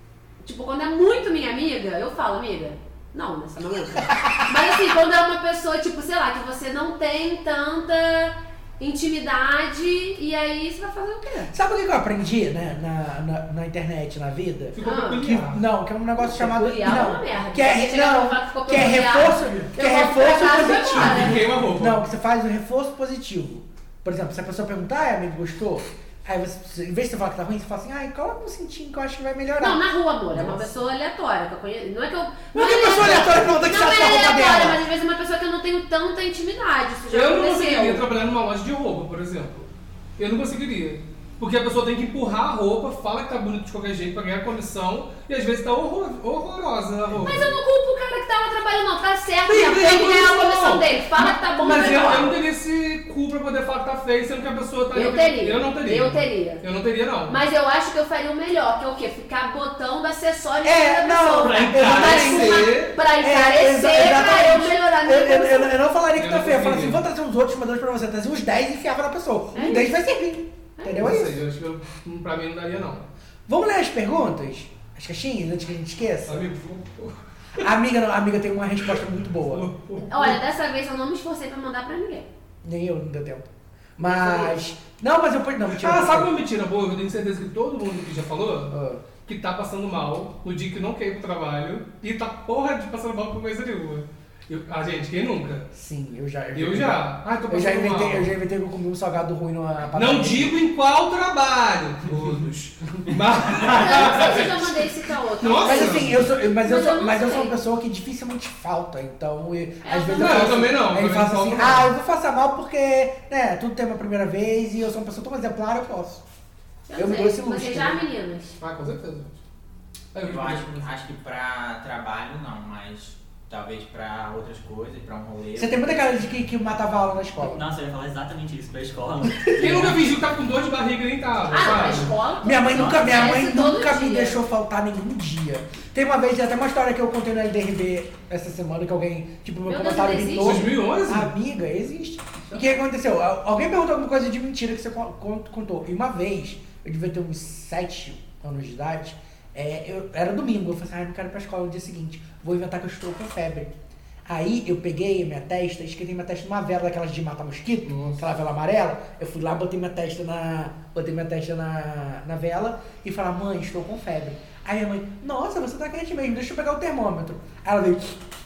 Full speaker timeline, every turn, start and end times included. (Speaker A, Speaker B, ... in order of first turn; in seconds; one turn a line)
Speaker A: 0.4-11.5
Speaker B: 11.5-29.8
Speaker C: 14.8-15.6
Speaker A: 14.8-15.2
Speaker A: 16.2-21.4
Speaker C: 20.9-22.0
Speaker A: 29.6-38.0
Speaker C: 30.4-30.6
Speaker B: 32.5-34.8
Speaker C: 37.1-47.6
Speaker A: 47.2-52.3
Speaker C: 49.5-57.4
Speaker B: 51.6-52.3
Speaker A: 54.9-56.6
Speaker A: 57.3-65.8
Speaker B: 60.6-71.4
Speaker C: 61.4-63.0
Speaker C: 66.2-67.0
Speaker A: 69.5-69.8
Speaker A: 70.8-71.1
Speaker C: 71.0-73.1
Speaker B: 73.5-76.5
Speaker C: 76.3-77.6
Speaker B: 77.6-79.7
Speaker C: 79.5-80.3
Speaker A: 80.0-82.3
Speaker B: 82.6-83.5
Speaker B: 84.0-86.3
Speaker C: 85.7-95.7
Speaker B: 88.7-89.1
Speaker B: 95.7-100.6
Speaker C: 96.5-98.3
Speaker C: 99.9-104.8
Speaker B: 103.5-104.5
Speaker A: 103.7-107.6
Speaker C: 105.4-106.3
Speaker B: 105.6-116.2
Speaker A: 109.8-110.6
Speaker C: 110.2-111.9
Speaker A: 116.9-118.6
Speaker B: 117.0-118.0
Speaker C: 118.6-119.4
Speaker C: 120.1-120.9
Speaker D: 120.2-126.1
Speaker B: 125.6-127.6
Speaker E: 127.4-130.1
Speaker B: 129.3-129.9
Speaker C: 129.6-132.2
Speaker A: 131.5-134.4
Speaker B: 132.4-153.7
Speaker A: 139.7-140.6
Speaker C: 140.4-141.3
Speaker B: 154.3-168.2
Speaker C: 157.9-158.2